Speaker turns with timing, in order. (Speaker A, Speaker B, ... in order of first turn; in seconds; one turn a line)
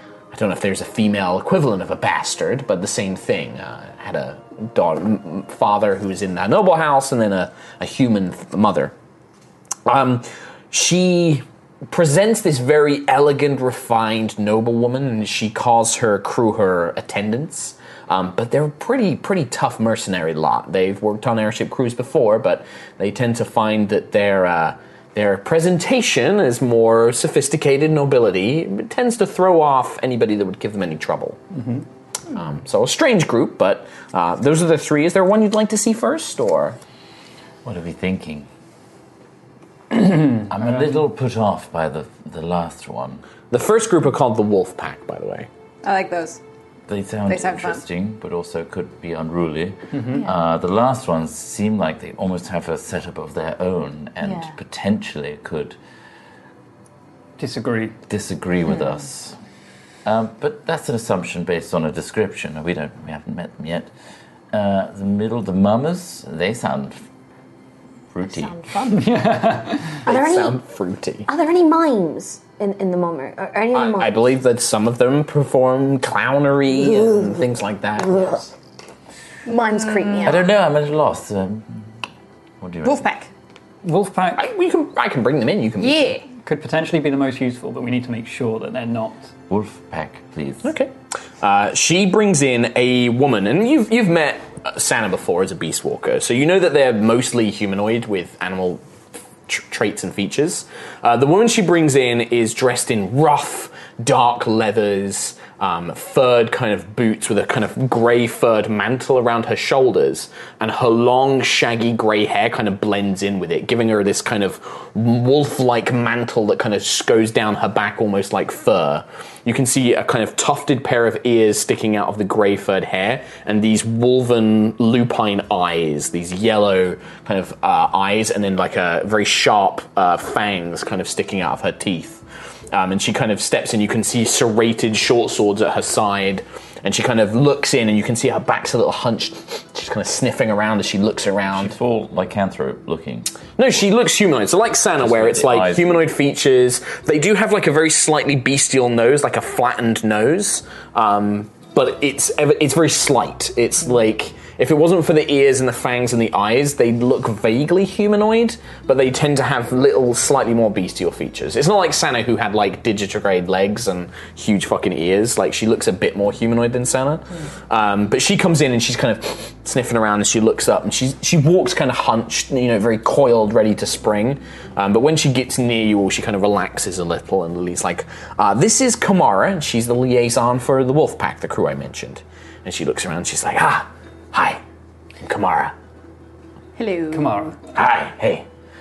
Speaker A: 0.3-8.9
Speaker A: 9.8-31.4
Speaker B: 31.5-31.8
Speaker A: 32.3-36.8
Speaker C: 37.6-38.5
Speaker C: 40.3-43.2
Speaker A: 43.5-45.5
Speaker D: 45.8-46.4
Speaker C: 46.9-55.8
Speaker D: 47.3-47.8
Speaker B: 49.9-50.2
Speaker B: 57.4-58.0
Speaker C: 58.1-59.4
Speaker C: 60.0-63.9
Speaker C: 64.5-67.0
Speaker C: 68.1-68.5
Speaker E: 68.2-69.3
Speaker B: 68.9-70.0
Speaker E: 70.0-70.6
Speaker A: 70.0-71.3
Speaker E: 71.3-74.2
Speaker A: 73.7-78.5
Speaker E: 78.0-78.4
Speaker E: 79.5-80.5
Speaker D: 79.8-80.3
Speaker C: 80.2-81.8
Speaker C: 82.6-83.1
Speaker D: 82.8-83.3
Speaker B: 83.8-84.5
Speaker A: 84.4-86.1
Speaker D: 85.8-86.2
Speaker B: 86.4-89.3
Speaker C: 89.5-90.7
Speaker A: 90.6-98.8
Speaker A: 99.5-141.7
Speaker C: 141.5-143.3
Speaker A: 143.6-184.6
Speaker C: 145.0-146.0
Speaker A: 185.2-185.7
Speaker D: 186.8-187.5
Speaker B: 187.1-187.5
Speaker A: 187.7-188.4